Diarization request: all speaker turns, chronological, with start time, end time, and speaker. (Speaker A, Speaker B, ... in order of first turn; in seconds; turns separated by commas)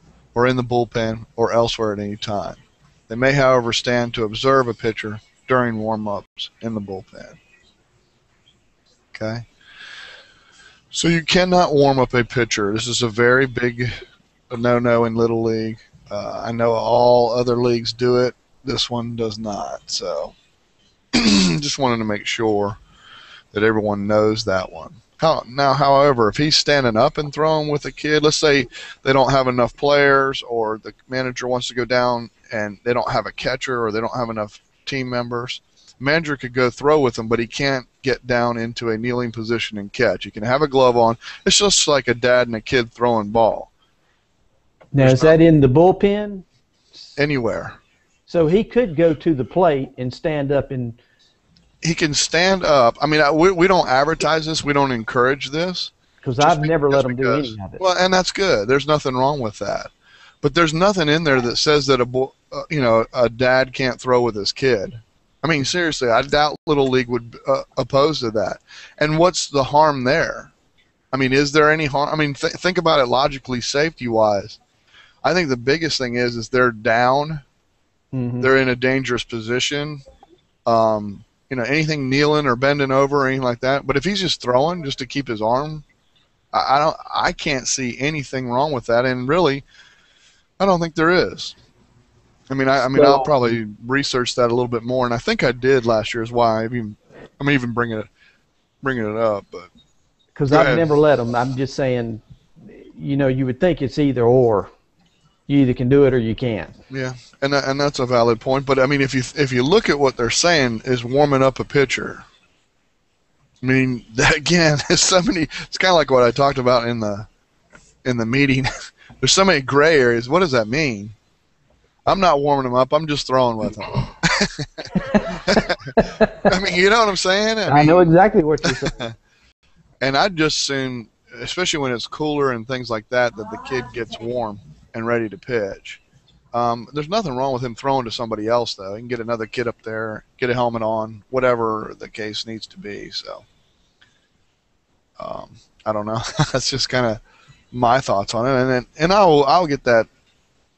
Speaker A: 0.3-7.4, Speaker A: 9.1-9.4, Speaker A: 10.9-14.0, Speaker A: 14.5-20.3, Speaker A: 21.1-22.8, Speaker A: 23.5-43.7, Speaker B: 44.9-46.4, Speaker A: 45.0-45.3, Speaker A: 47.2-47.8, Speaker B: 48.3-51.0, Speaker A: 51.8-59.9, Speaker B: 56.2-57.8, Speaker A: 60.4-70.5, Speaker A: 71.1-74.6, Speaker A: 75.2-77.4, Speaker B: 78.1-78.5, Speaker A: 78.4-80.0, Speaker A: 80.7-85.8, Speaker A: 86.5-89.6, Speaker A: 90.6-91.5, Speaker A: 92.5-98.1, Speaker B: 92.9-93.5, Speaker A: 98.8-99.7, Speaker B: 100.3-104.7, Speaker A: 100.5-100.8, Speaker B: 105.5-106.8, Speaker A: 106.9-112.2, Speaker A: 113.6-117.3, Speaker A: 118.0-121.1, Speaker A: 122.1-128.1, Speaker B: 126.0-126.4, Speaker B: 127.7-129.0, Speaker A: 128.6-129.1, Speaker A: 130.0-136.0, Speaker A: 136.5-143.4, Speaker A: 145.2-147.2, Speaker A: 147.7-150.1